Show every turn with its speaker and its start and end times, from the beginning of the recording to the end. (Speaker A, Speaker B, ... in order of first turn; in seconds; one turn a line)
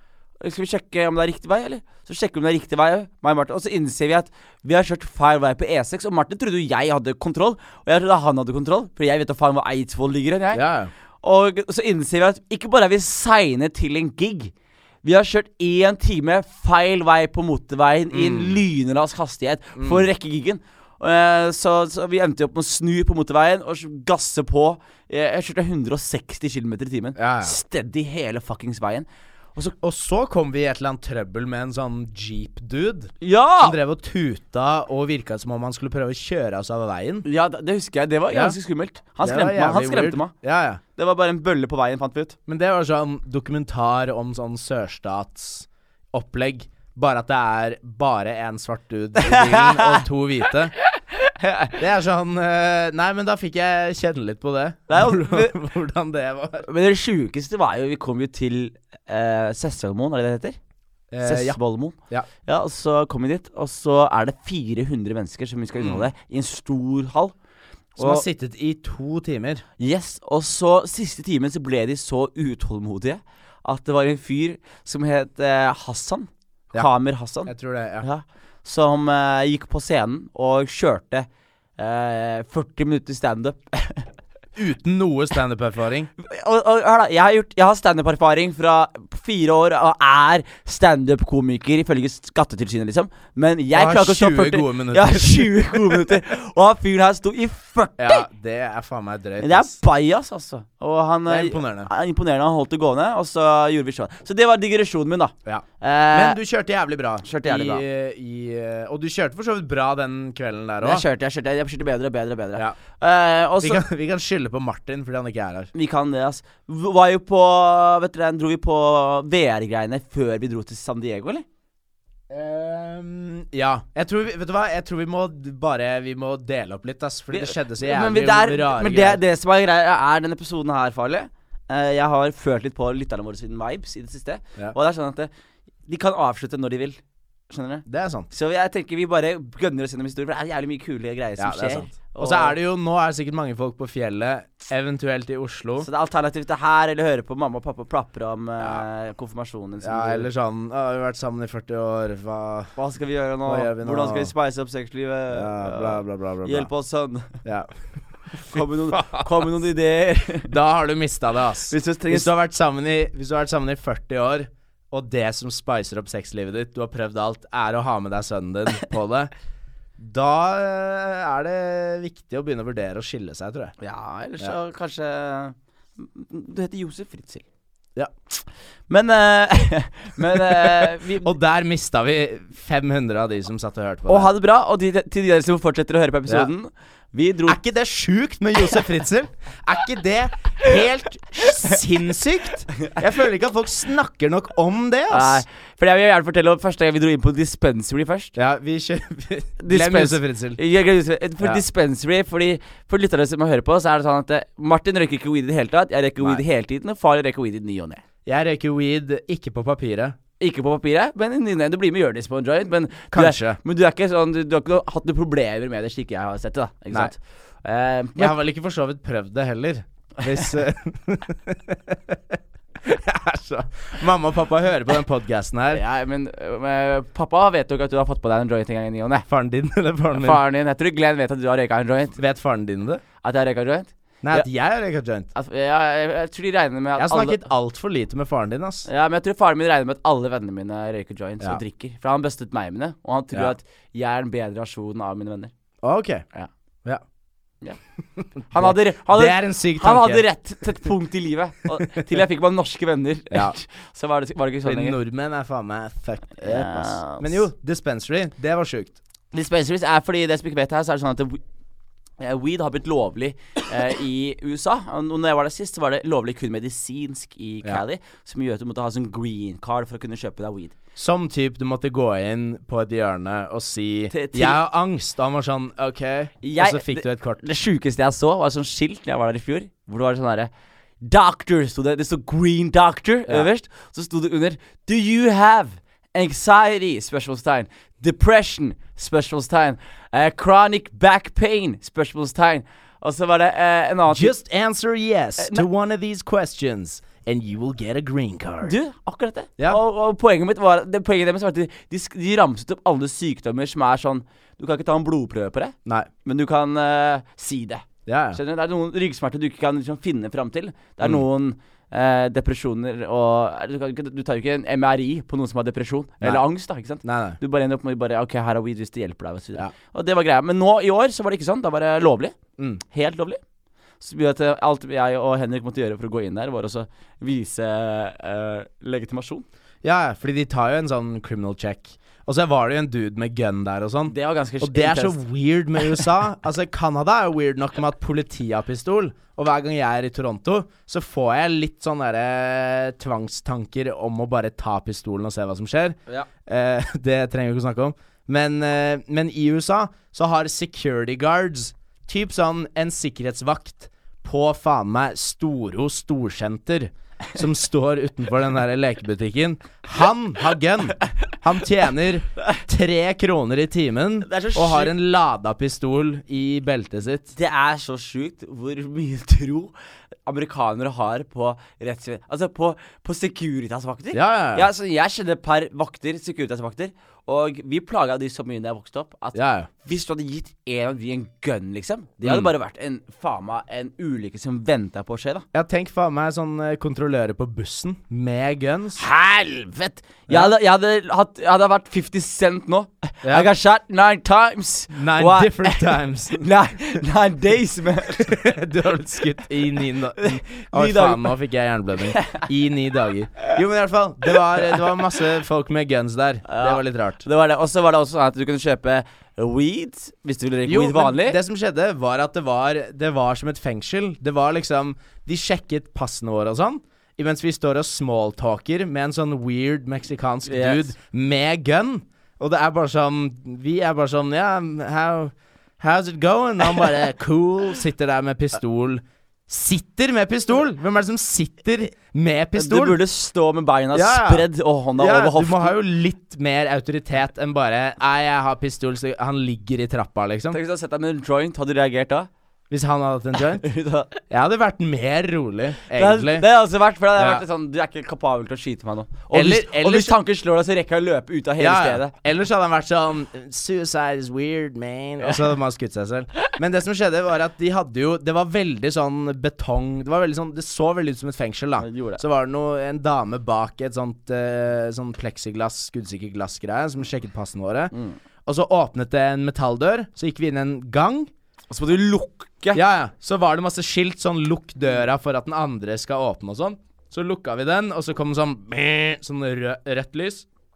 Speaker A: 0.4-10.6
Speaker B: 10.5-10.9
Speaker A: 11.2-14.5
Speaker A: 15.0-29.7
Speaker B: 18.1-18.6
Speaker B: 19.8-20.1
Speaker B: 27.2-27.5
Speaker B: 29.8-37.3
Speaker A: 33.2-33.8
Speaker A: 37.2-40.3
Speaker B: 38.3-38.6
Speaker B: 39.2-40.8
Speaker A: 41.0-42.4
Speaker B: 42.5-50.7
Speaker A: 49.2-50.0
Speaker A: 51.2-51.8
Speaker B: 51.8-56.7
Speaker A: 54.9-55.5
Speaker A: 56.6-60.6
Speaker B: 61.1-61.6
Speaker A: 61.2-67.3
Speaker B: 65.8-66.1
Speaker B: 68.0-69.6
Speaker A: 68.0-68.2
Speaker A: 69.8-81.3
Speaker B: 77.5-78.1
Speaker A: 81.8-84.1
Speaker B: 84.6-86.1
Speaker A: 86.2-98.3
Speaker B: 93.7-96.1
Speaker B: 98.0-99.8
Speaker A: 99.4-106.4
Speaker B: 101.3-101.9
Speaker B: 105.5-111.0
Speaker A: 107.2-107.8
Speaker A: 110.8-113.8
Speaker B: 113.6-115.7
Speaker A: 115.7-121.5
Speaker B: 122.3-129.2
Speaker A: 127.3-135.3
Speaker A: 135.9-142.6
Speaker B: 137.9-138.3
Speaker B: 141.4-145.9
Speaker A: 145.8-150.3
Speaker B: 149.8-152.7
Speaker A: 152.8-157.4
Speaker B: 153.5-154.3
Speaker B: 155.3-156.7
Speaker B: 157.4-157.7
Speaker A: 158.4-160.5
Speaker B: 158.5-159.3
Speaker B: 160.5-169.3
Speaker A: 161.7-162.3
Speaker B: 170.0-173.7
Speaker A: 173.8-177.4
Speaker A: 178.9-181.3
Speaker B: 180.3-184.3
Speaker A: 184.1-187.6
Speaker B: 187.5-195.4
Speaker A: 195.1-198.3
Speaker B: 198.3-200.6
Speaker A: 199.6-208.0
Speaker B: 208.3-210.2
Speaker A: 210.4-218.3
Speaker B: 213.1-213.6
Speaker B: 218.2-225.8
Speaker A: 225.7-229.3
Speaker B: 229.3-230.4
Speaker A: 230.2-232.2
Speaker B: 232.2-233.0
Speaker A: 233.2-234.5
Speaker B: 234.2-235.3
Speaker A: 235.3-237.4
Speaker B: 237.0-238.9
Speaker A: 238.9-245.5
Speaker B: 245.8-246.2
Speaker B: 248.2-250.2
Speaker A: 248.5-255.0
Speaker B: 254.7-259.0
Speaker A: 256.4-257.4
Speaker A: 259.3-261.4
Speaker A: 262.2-270.8
Speaker B: 271.0-277.4
Speaker A: 274.1-274.6
Speaker A: 276.4-280.5
Speaker A: 281.0-294.3
Speaker B: 294.1-298.8
Speaker A: 295.4-295.6
Speaker A: 298.6-322.4
Speaker B: 308.1-308.4
Speaker B: 317.0-317.4
Speaker A: 322.9-323.4
Speaker A: 324.0-329.5
Speaker B: 329.8-367.3
Speaker A: 334.1-335.2
Speaker A: 364.2-364.9
Speaker A: 367.3-369.7
Speaker A: 370.3-385.4
Speaker B: 374.1-374.7
Speaker B: 379.3-379.7
Speaker B: 382.2-382.5
Speaker B: 385.5-389.1
Speaker A: 389.0-398.4
Speaker B: 394.9-396.5
Speaker B: 398.2-407.2
Speaker A: 400.2-401.3
Speaker A: 402.1-402.4
Speaker A: 406.5-411.4
Speaker B: 410.7-433.0
Speaker A: 420.5-420.9
Speaker A: 432.6-435.8
Speaker B: 433.9-434.5
Speaker B: 435.0-440.6
Speaker A: 440.5-442.3
Speaker B: 442.7-443.7
Speaker A: 443.6-444.2
Speaker B: 444.3-446.5
Speaker A: 445.9-452.1
Speaker B: 447.2-447.4
Speaker B: 449.3-450.1
Speaker B: 451.6-467.9
Speaker A: 461.8-462.2
Speaker B: 468.4-471.3
Speaker A: 471.7-472.8
Speaker B: 472.7-480.5